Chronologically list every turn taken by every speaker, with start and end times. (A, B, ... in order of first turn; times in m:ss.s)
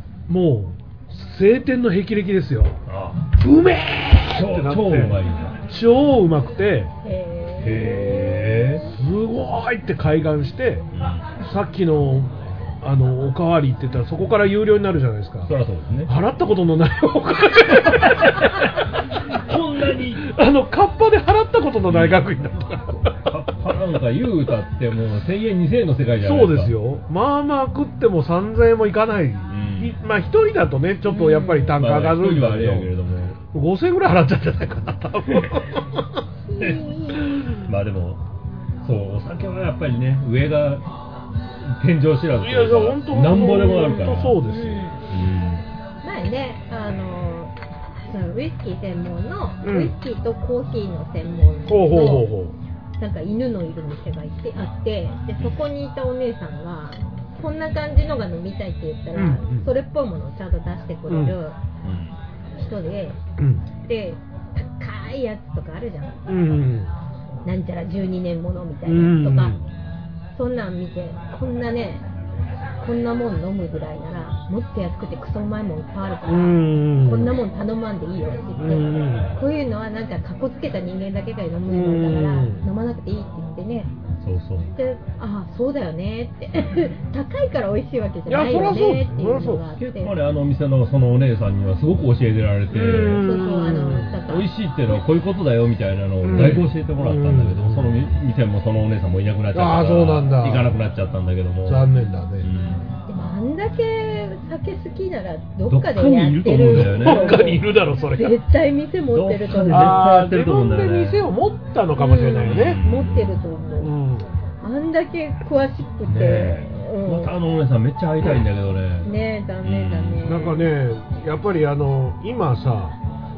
0:00.3-0:02.8 A
0:02.9-0:03.3 B
0:03.3-0:06.9 A
0:04.3-0:05.6 B
0:07.0-0:08.8 C
0:07.6-0:08.8 B
0:09.0-0:10.9 A
0:10.9-0:11.3 B
0:11.4-0:15.5 A
0:15.5-0:16.1 B
0:16.1-0:18.8 A
0:18.0-0:18.6 B
0:19.2-0:20.3 B
0:20.2-0:23.2 A
0:21.9-0:22.3 B
0:23.1-0:26.7 B
0:26.2-0:32.9 A
0:29.5-0:30.0 B
0:31.1-0:31.8 C
0:31.8-0:33.4 B
0:33.5-0:36.0 A
0:36.5-0:37.4 C
0:36.6-0:36.8 B
0:37.6-0:38.2 B
0:38.8-0:40.9 B
0:41.6-0:44.4 B
0:42.4-0:44.9 A
0:43.6-0:45.0 C
0:45.1-0:45.6 B
0:46.0-0:47.5 C
0:48.1-0:52.3 C
0:49.6-0:49.9 A
0:51.7-0:52.6 A
0:53.0-1:01.6 C
0:59.2-0:59.7 A
1:01.1-1:01.4 A
1:01.8-1:02.2 B
1:02.6-1:03.2 C
1:03.4-1:03.6 A
1:03.8-1:06.2 C
1:06.3-1:06.9 A
1:07.4-1:09.6 C
1:08.8-1:09.6 A
1:10.3-1:12.1 C
1:12.8-1:23.9 C
1:16.3-1:17.3 A
1:18.6-1:19.3 A
1:21.7-1:22.6 A
1:24.2-1:24.7 B
1:24.8-1:30.2 C
1:28.3-1:29.6 A
1:29.8-1:33.2 B
1:32.7-1:34.1 A
1:33.2-1:34.5 C
1:34.3-1:41.9 B
1:36.2-1:38.0 A
1:39.5-1:40.7 A
1:41.7-1:42.5 A
1:42.4-1:42.8 B
1:43.1-1:50.0 C
1:45.7-1:47.6 B
1:46.7-1:48.4 A
1:49.1-1:51.2 B
1:49.7-1:52.8 A
1:52.0-1:53.9 C
1:52.4-1:53.4 B
1:53.8-1:54.3 A
1:54.6-1:57.3 C
1:56.1-2:00.3 B
1:59.0-2:00.7 C
2:00.2-2:03.0 A